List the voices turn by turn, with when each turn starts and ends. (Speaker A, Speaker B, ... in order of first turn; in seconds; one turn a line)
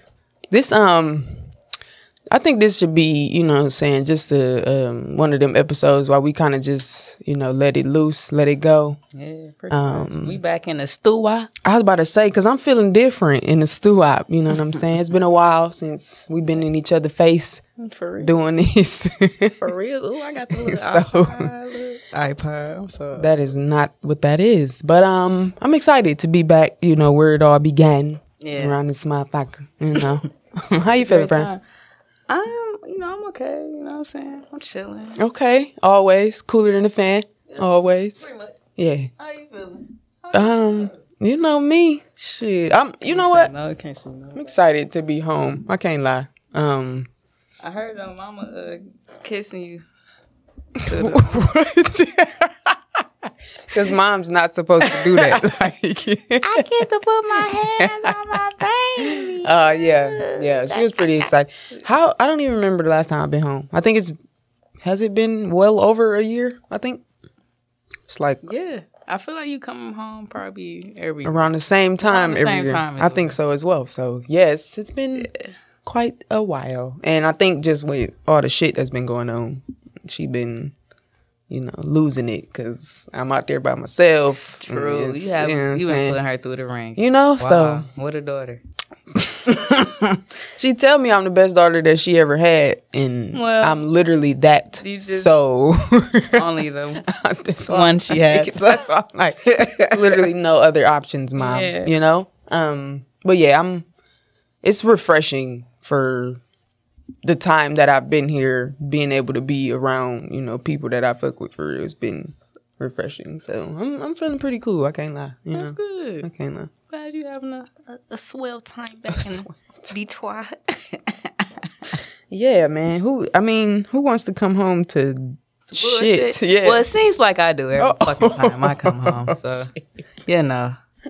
Speaker A: 0.5-1.5
Speaker A: 2.3-9.0
Speaker B: 9.1-11.5
Speaker A: 9.7-10.4
Speaker A: 11.6-17.6
Speaker B: 17.8-18.3
Speaker A: 18.2-19.7
Speaker B: 19.6-23.3
Speaker A: 20.5-21.5
Speaker A: 23.2-31.5
Speaker B: 28.4-28.8
Speaker B: 31.0-31.6
Speaker B: 32.3-35.2
Speaker A: 35.2-39.1
Speaker B: 38.2-38.6
Speaker B: 39.2-40.9
Speaker A: 40.3-43.5
Speaker B: 43.1-44.6
Speaker A: 44.4-47.1
Speaker B: 47.6-49.8
Speaker B: 50.8-51.4
Speaker A: 50.9-58.4
Speaker B: 54.8-55.4
Speaker B: 56.4-60.9
Speaker A: 59.0-64.2
Speaker A: 64.8-67.0
Speaker A: 68.1-68.5
Speaker B: 68.4-71.4
Speaker A: 71.2-75.3
Speaker B: 72.0-73.4
Speaker B: 75.2-75.5
Speaker A: 75.8-80.7
Speaker A: 81.5-86.2
Speaker B: 84.6-88.6
Speaker A: 87.0-87.9
Speaker A: 89.1-103.9
Speaker B: 93.3-93.8
Speaker B: 94.8-95.3
Speaker B: 96.3-97.0
Speaker B: 97.7-98.7
Speaker B: 99.5-100.2
Speaker B: 101.4-101.9
Speaker A: 104.6-106.4
Speaker A: 107.2-116.7
Speaker B: 115.5-116.3
Speaker B: 116.9-121.7
Speaker A: 119.1-119.9
Speaker A: 122.3-126.9
Speaker B: 125.7-129.7
Speaker A: 127.8-129.8
Speaker B: 130.2-130.7